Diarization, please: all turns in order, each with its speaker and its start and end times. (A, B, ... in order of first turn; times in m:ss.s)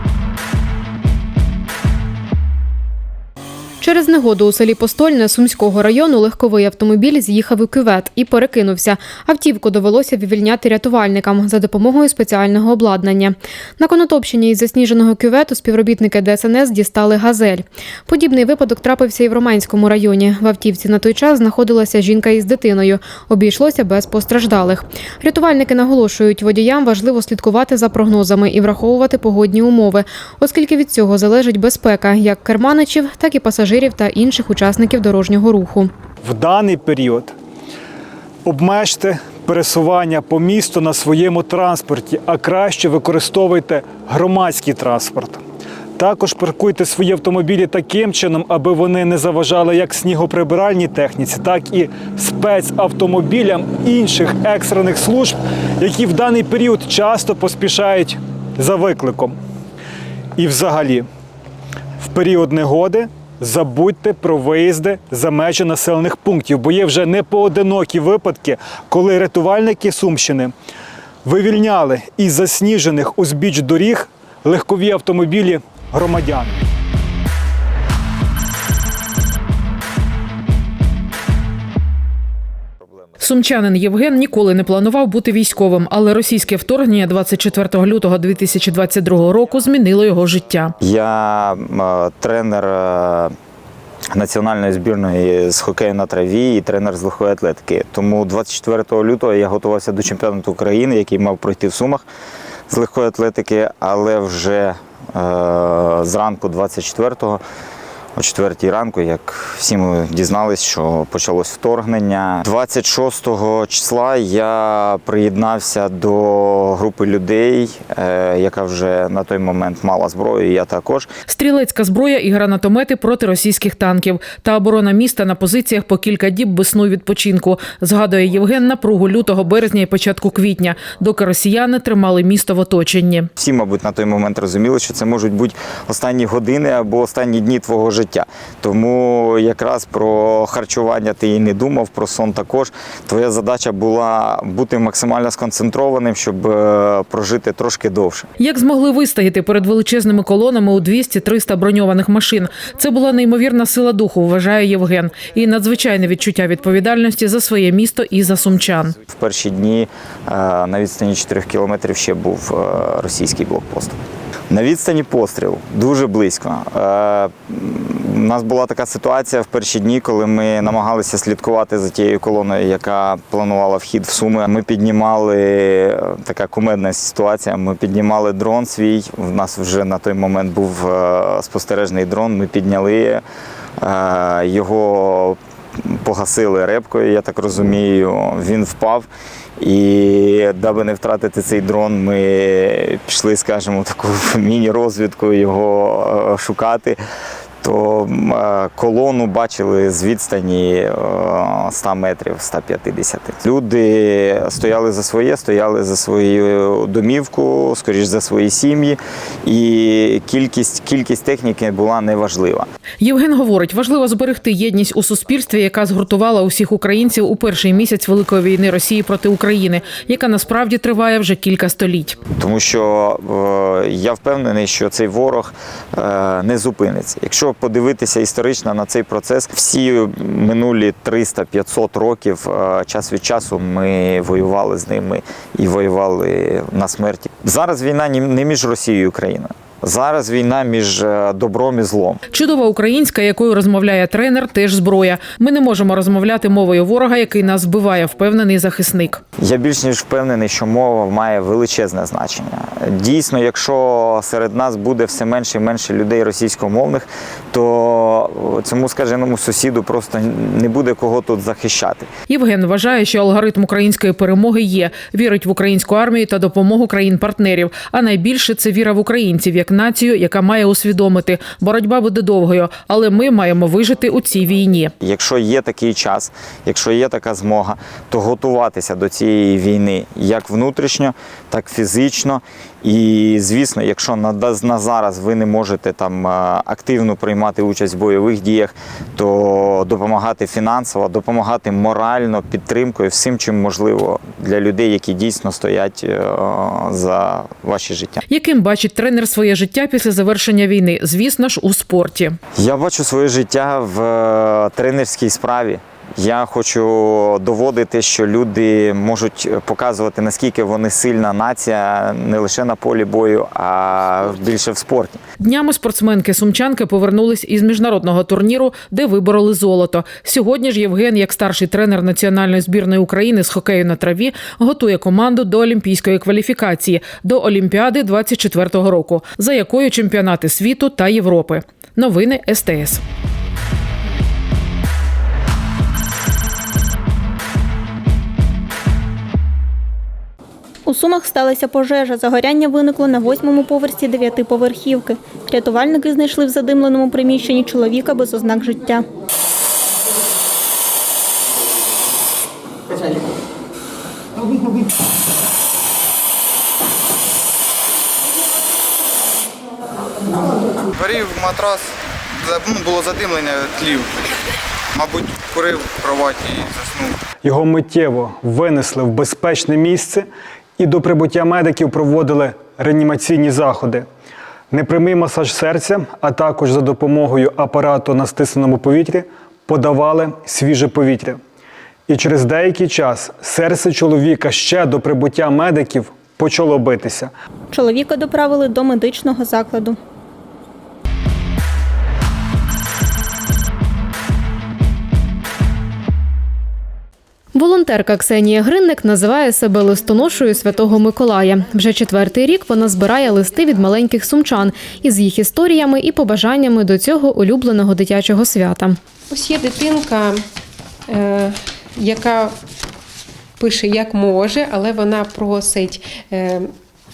0:03.8-0:35.9 A
0:36.2-0:37.3 B
0:38.4-0:45.4 B
0:46.0-0:59.4 B
1:00.4-1:01.1 B
1:02.0-1:10.5 B
1:11.2-1:16.5 B
1:23.2-1:30.8 C
1:30.8-1:33.3 D
1:34.1-1:42.1 D
1:42.7-1:47.4 D
1:48.2-2:01.1 D
2:01.3-2:13.3 C
2:13.4-2:28.3 D
2:28.4-2:39.0 C
2:39.1-2:44.0 D
2:44.5-3:03.2 D
3:03.8-3:09.1 D
3:09.6-3:17.0 D
3:17.6-3:32.7 D
3:33.0-3:42.2 C
3:42.4-4:02.2 D
4:02.3-4:09.2 C
4:09.4-4:22.1 D
4:22.3-4:34.9 C
4:35.0-4:58.2 D
4:58.3-5:02.4 C
5:02.6-5:15.2 D
5:15.4-5:33.0 C
5:40.9-5:49.0 E
6:01.0-6:01.9 F
6:02.4-6:04.1 F
6:05.0-6:07.1 F
6:07.4-6:10.3 B
6:10.8-6:14.1 B
6:14.7-6:21.4 B
6:22.1-6:27.3 B
6:27.7-6:30.0 E
6:37.6-6:49.0 A
6:49.3-6:50.4 G
6:51.1-6:52.6 G
6:53.6-6:56.7 G